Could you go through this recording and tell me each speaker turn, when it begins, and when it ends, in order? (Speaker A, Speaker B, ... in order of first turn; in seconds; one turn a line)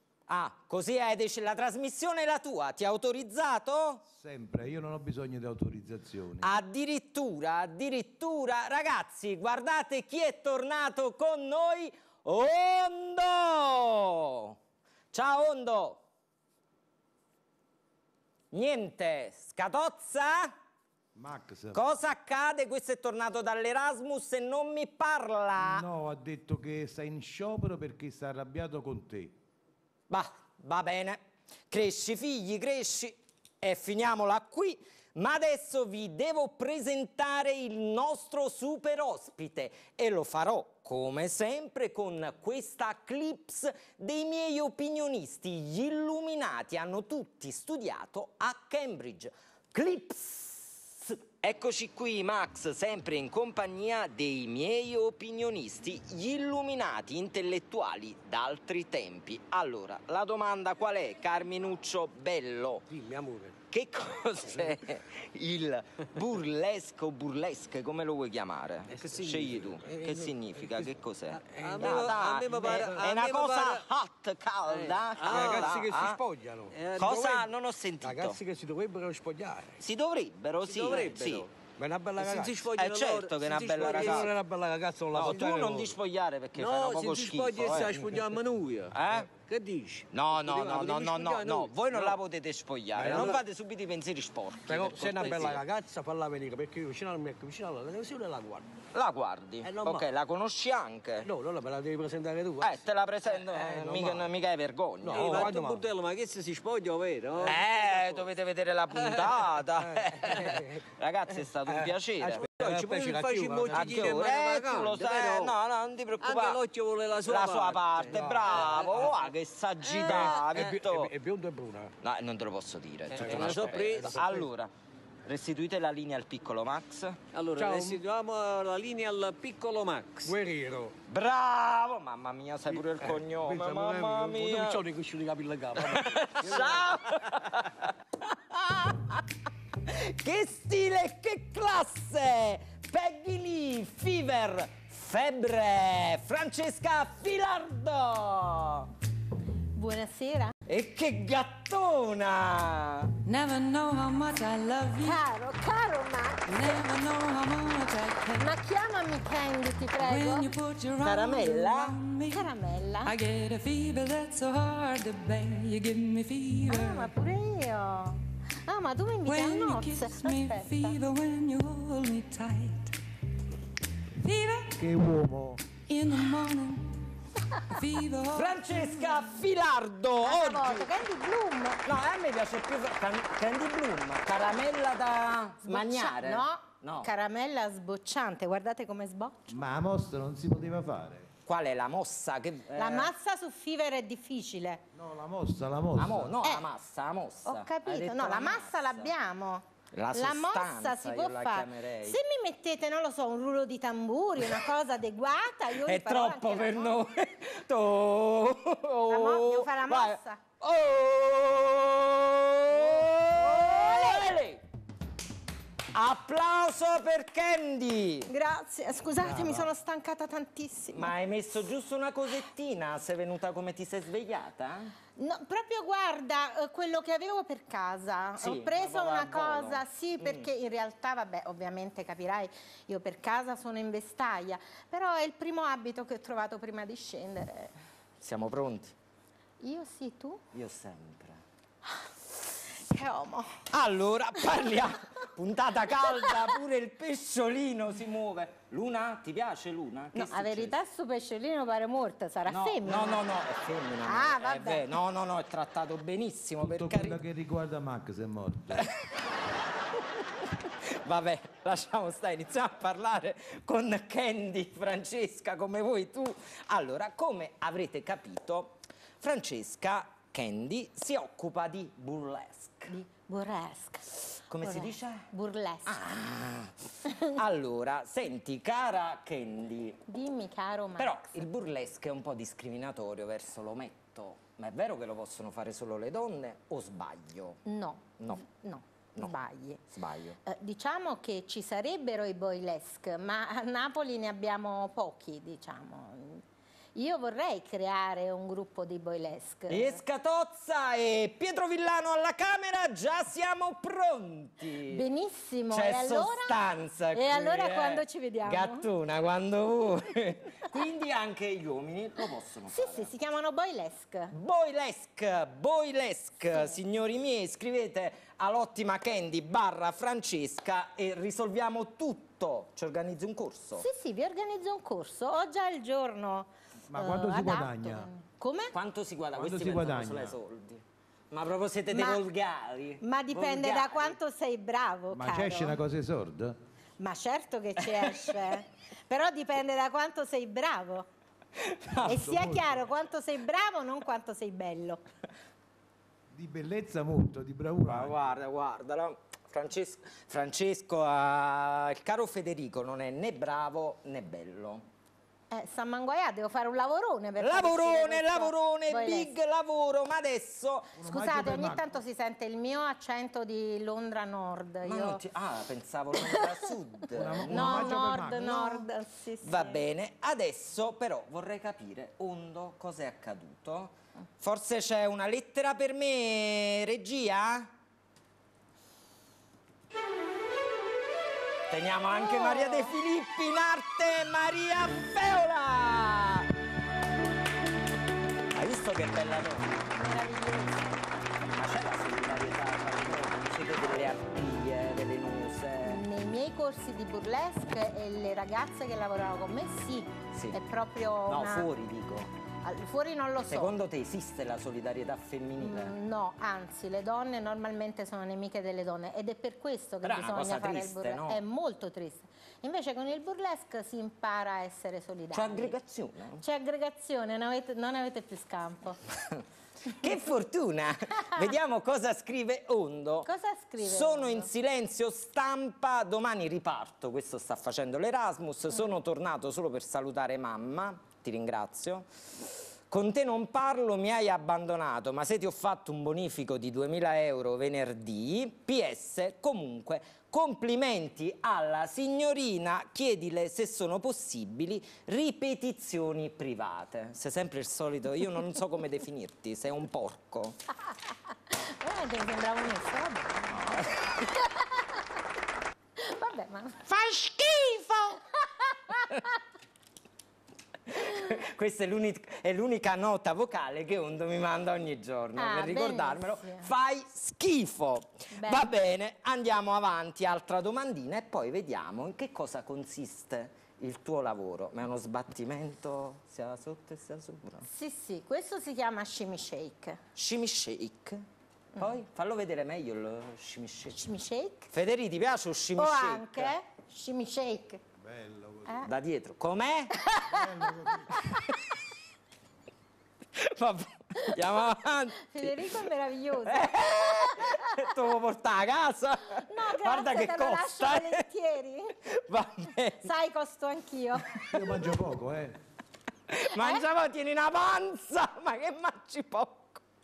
Speaker A: 0.3-4.0
Speaker B: 4.1-6.5
Speaker A: 6.4-14.6
Speaker A: 15.1-16.0
Speaker A: 18.5-20.5
Speaker B: 21.1-21.8
Speaker A: 21.7-25.8
Speaker B: 25.6-29.4
Speaker A: 30.1-62.9
Speaker C: 62.9-63.5
Speaker A: 63.7-76.2
Speaker C: 68.9-70.9
Speaker D: 71.5-73.8
Speaker C: 71.5-73.0
Speaker D: 74.7-75.8
Speaker C: 75.2-77.3
Speaker D: 76.7-77.5
Speaker A: 76.9-78.4
Speaker C: 78.0-79.7
Speaker A: 79.8-81.5
Speaker D: 80.6-81.5
Speaker C: 81.8-82.7
Speaker D: 82.2-84.3
Speaker A: 82.6-84.3
Speaker C: 83.8-85.9
Speaker A: 85.1-88.3
Speaker D: 86.5-89.0
Speaker C: 87.8-88.2
Speaker A: 88.9-89.3
Speaker C: 89.4-90.1
Speaker A: 90.1-95.6
Speaker D: 90.4-92.1
Speaker C: 93.0-93.3
Speaker D: 93.1-93.4
Speaker C: 94.7-98.8
Speaker A: 98.9-101.3
Speaker C: 99.6-100.1
Speaker C: 101.2-102.8
Speaker A: 102.6-105.6
Speaker C: 103.5-104.3
Speaker C: 105.0-105.8
Speaker D: 105.1-108.3
Speaker A: 107.3-112.5
Speaker D: 109.0-109.3
Speaker C: 111.7-114.2
Speaker D: 112.4-115.5
Speaker A: 113.7-116.6
Speaker D: 116.2-119.3
Speaker A: 117.2-121.1
Speaker C: 118.1-119.2
Speaker D: 119.8-120.6
Speaker C: 120.0-121.9
Speaker A: 122.0-124.7
Speaker D: 123.1-124.4
Speaker C: 123.2-124.4
Speaker A: 125.2-127.2
Speaker D: 127.3-130.3
Speaker C: 127.6-128.0
Speaker C: 130.2-130.9
Speaker A: 131.1-134.8
Speaker C: 133.4-136.8
Speaker A: 135.9-139.2
Speaker A: 139.8-148.9
Speaker E: 149.7-150.5
Speaker A: 150.7-153.1
Speaker F: 153.2-155.2
Speaker E: 155.0-156.7
Speaker F: 156.5-158.5
Speaker E: 158.4-160.5
Speaker F: 160.0-162.5
Speaker A: 161.0-162.0
Speaker E: 162.3-163.1
Speaker F: 163.0-167.1
Speaker E: 166.7-171.0
Speaker F: 169.2-173.0
Speaker F: 174.1-174.8
Speaker B: 174.8-175.6
Speaker F: 175.9-176.9
Speaker F: 177.6-179.0
Speaker A: 178.3-180.9
Speaker E: 180.2-181.8
Speaker A: 181.8-187.1
Speaker E: 185.6-189.5
Speaker B: 189.5-191.3
Speaker A: 191.4-193.1
Speaker E: 192.8-194.8
Speaker B: 194.9-196.4
Speaker A: 195.9-199.1
Speaker E: 197.4-206.9
Speaker A: 199.9-202.2
Speaker A: 205.8-214.6
Speaker E: 209.1-210.4
Speaker E: 212.7-214.3
Speaker A: 215.9-218.3
Speaker E: 218.3-221.1
Speaker A: 219.3-219.7
Speaker A: 220.9-224.9
Speaker E: 225.2-237.7
Speaker A: 228.4-230.5
Speaker A: 238.2-238.9
Speaker E: 239.6-240.4
Speaker A: 240.5-241.4
Speaker E: 242.7-243.5
Speaker A: 243.7-250.8
Speaker E: 250.1-253.2
Speaker A: 252.5-257.2
Speaker E: 254.0-254.9
Speaker B: 256.6-258.9
Speaker A: 260.7-272.9
Speaker E: 272.9-276.2
Speaker A: 274.5-275.3
Speaker A: 275.9-280.0
Speaker E: 280.1-281.4
Speaker A: 281.0-287.6
Speaker E: 287.6-289.8
Speaker A: 289.9-290.4
Speaker E: 290.4-296.4
Speaker E: 296.9-300.0
Speaker A: 299.7-305.0
Speaker E: 304.9-306.6
Speaker A: 305.7-313.1
Speaker E: 307.1-308.9
Speaker E: 312.7-314.3
Speaker A: 314.3-323.8
Speaker E: 316.5-316.8
Speaker E: 323.8-328.7
Speaker B: 326.9-328.1
Speaker A: 328.7-334.1
Speaker B: 329.3-330.4
Speaker E: 331.9-332.2
Speaker E: 333.0-335.8
Speaker B: 335.1-336.6
Speaker E: 337.0-341.1
Speaker A: 337.9-338.6
Speaker A: 341.6-342.2
Speaker B: 342.0-342.9
Speaker E: 342.1-345.0
Speaker B: 346.3-348.4
Speaker A: 347.9-354.8
Speaker E: 355.5-359.3
Speaker A: 357.4-361.0
Speaker B: 361.0-362.0
Speaker E: 361.0-365.2
Speaker A: 364.8-368.0
Speaker B: 367.1-368.8
Speaker E: 367.4-369.8
Speaker A: 369.4-377.7
Speaker A: 381.7-386.5
Speaker E: 382.2-382.9
Speaker A: 388.5-389.9
Speaker E: 389.9-391.1
Speaker A: 391.5-396.0
Speaker E: 395.8-401.7
Speaker A: 401.3-402.3
Speaker E: 402.6-403.8
Speaker A: 403.5-405.9
Speaker E: 405.6-415.7
Speaker A: 410.0-411.4
Speaker A: 415.3-416.4
Speaker E: 416.4-419.0
Speaker A: 419.3-423.3
Speaker E: 423.2-424.5
Speaker A: 423.8-432.1
Speaker A: 432.9-450.6
Speaker E: 451.5-453.8
Speaker A: 453.5-454.2
Speaker E: 456.0-459.3
Speaker A: 460.9-477.7
Speaker E: 465.4-466.7
Speaker E: 468.3-468.7
Speaker E: 477.7-480.0
Speaker A: 480.1-481.2
Speaker A: 481.8-484.0
Speaker E: 483.9-484.7
Speaker A: 484.7-486.5
Speaker E: 485.8-487.8
Speaker B: 488.0-488.9
Speaker A: 488.8-489.9
Speaker E: 490.1-491.4
Speaker B: 490.3-491.3
Speaker A: 493.4-495.7
Speaker E: 494.2-496.8
Speaker A: 496.4-501.2
Speaker E: 499.4-501.9
Speaker A: 502.1-503.0
Speaker E: 503.0-504.6
Speaker B: 504.5-505.6
Speaker A: 506.3-509.8